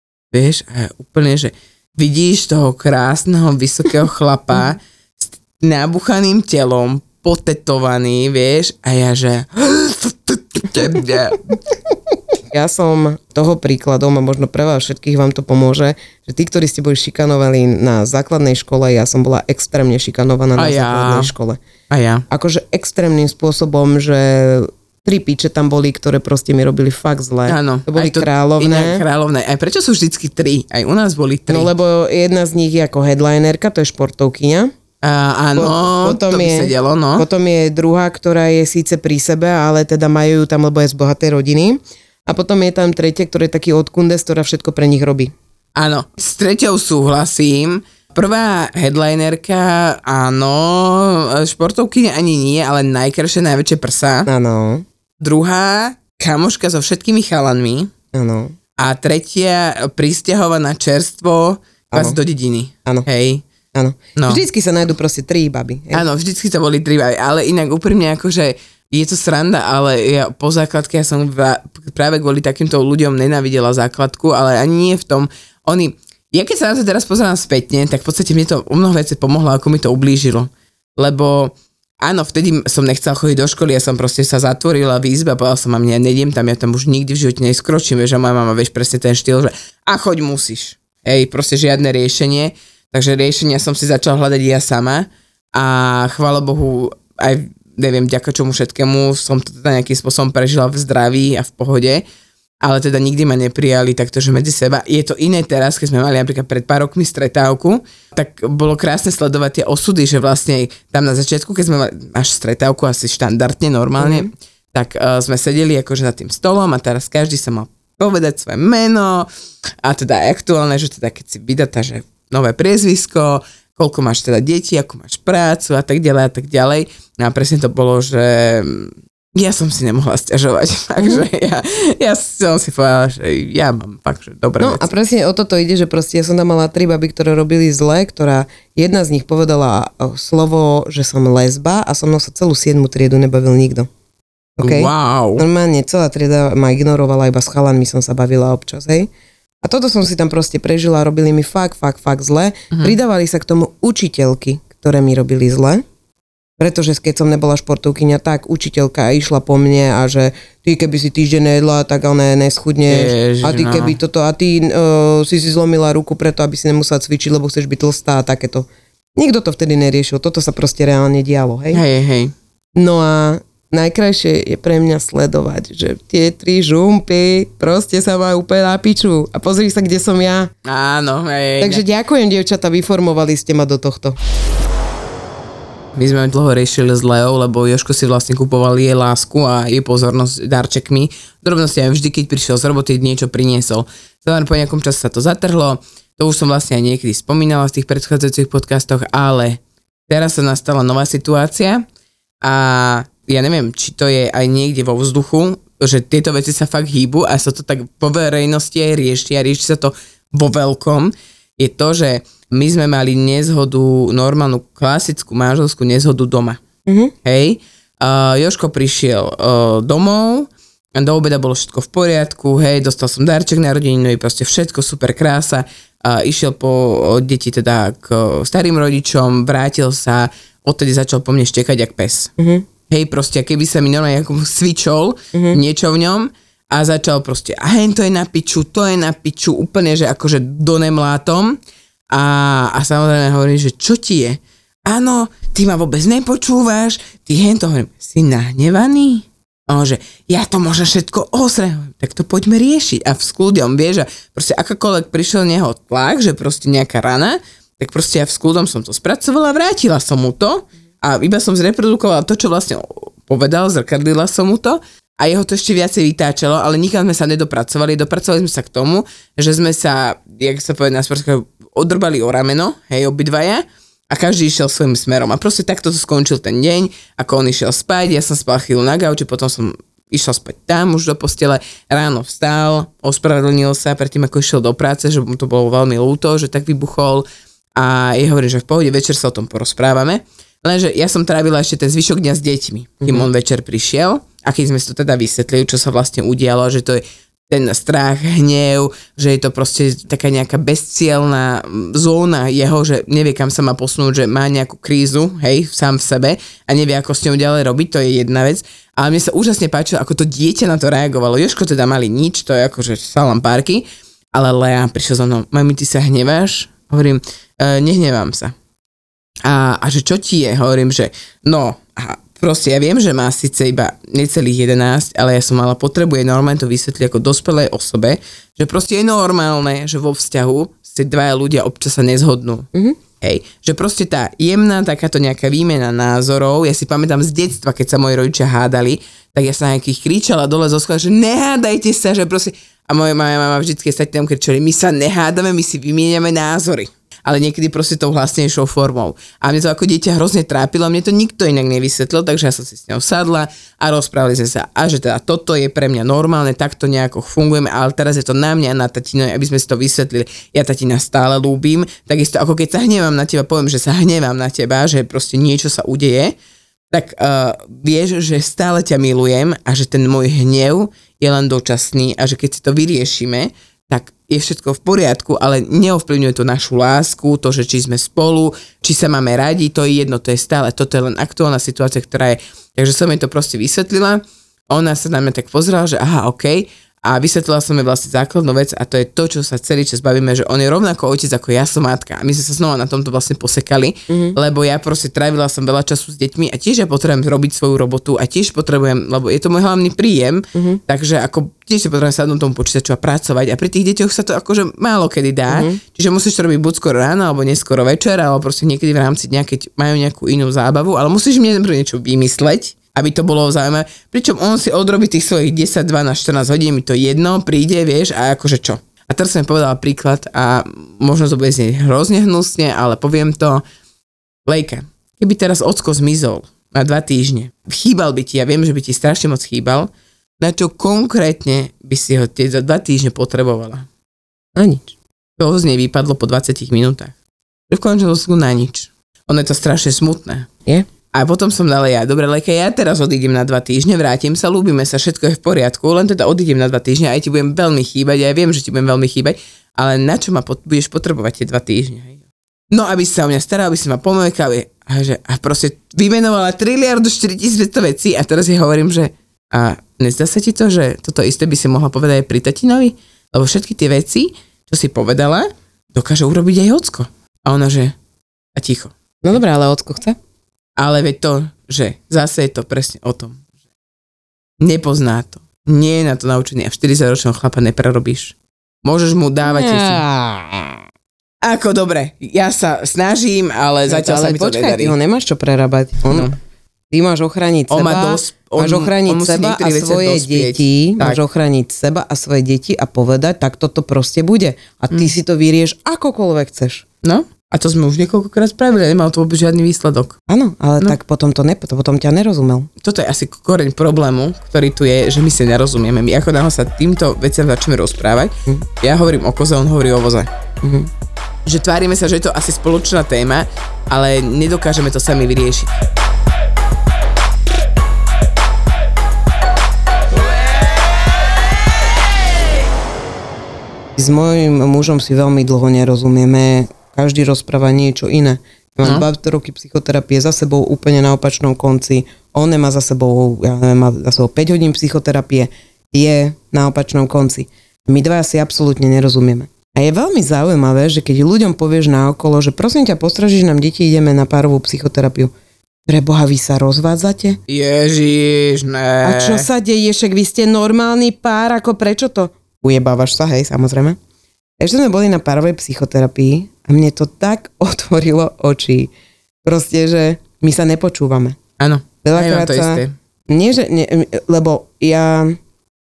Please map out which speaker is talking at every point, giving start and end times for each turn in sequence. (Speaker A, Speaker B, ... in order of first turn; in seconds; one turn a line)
Speaker A: 0.3-11.5
Speaker B: 12.5-21.6
Speaker A: 20.6-21.3
Speaker A: 21.9-22.2
Speaker B: 22.3-29.0
Speaker A: 27.5-31.7
Speaker B: 31.5-34.7
Speaker A: 35.0-37.3
Speaker B: 35.5-45.3
Speaker A: 45.8-54.3
Speaker B: 54.3-54.9
Speaker A: 55.2-57.9
Speaker B: 58.1-58.5
Speaker A: 58.8-63.4
Speaker B: 61.9-62.2
Speaker B: 63.7-66.0
Speaker A: 64.2-64.4
Speaker A: 65.9-102.0
Speaker A: 102.6-119.3
Speaker B: 114.0-114.3
Speaker A: 119.8-134.8
Speaker B: 131.0-131.2
Speaker B: 134.6-143.9
Speaker B: 144.6-149.1
Speaker A: 144.6-145.5
Speaker B: 149.6-155.8
Speaker B: 156.6-171.8
Speaker A: 162.9-164.0
Speaker A: 171.7-172.3
Speaker B: 172.8-180.5
Speaker A: 180.7-181.8
Speaker B: 181.6-184.2
Speaker A: 185.9-201.8
Speaker A: 202.4-216.6
Speaker B: 216.9-217.1
Speaker A: 217.2-232.3
Speaker B: 232.4-232.7
Speaker A: 232.9-241.6
Speaker B: 235.3-235.6
Speaker A: 242.1-287.2
Speaker A: 287.8-318.5
Speaker B: 293.0-293.3
Speaker A: 319.4-332.7
Speaker A: 333.2-366.4
Speaker A: 366.9-423.6
Speaker B: 394.1-394.4
Speaker B: 400.5-400.8
Speaker B: 405.5-405.8
Speaker A: 424.5-433.9
Speaker B: 434.6-434.9
Speaker A: 435.4-437.1
Speaker A: 437.7-440.5
Speaker A: 441.1-452.2
Speaker A: 452.7-467.9
Speaker A: 468.6-468.9
Speaker B: 469.2-470.2
Speaker A: 470.8-473.4
Speaker A: 474.6-480.0
Speaker B: 479.4-480.8
Speaker A: 481.4-484.9
Speaker B: 483.9-486.3
Speaker A: 486.1-486.4
Speaker B: 486.9-496.9
Speaker A: 487.7-491.2
Speaker A: 497.0-500.2
Speaker B: 500.3-502.7
Speaker A: 502.8-510.3
Speaker B: 510.6-510.9
Speaker A: 511.5-515.8
Speaker B: 524.0-545.3
Speaker B: 545.9-547.4
Speaker A: 547.5-549.5
Speaker B: 549.0-554.0
Speaker B: 554.6-558.9
Speaker B: 559.4-561.4
Speaker A: 561.6-562.9
Speaker B: 562.0-565.4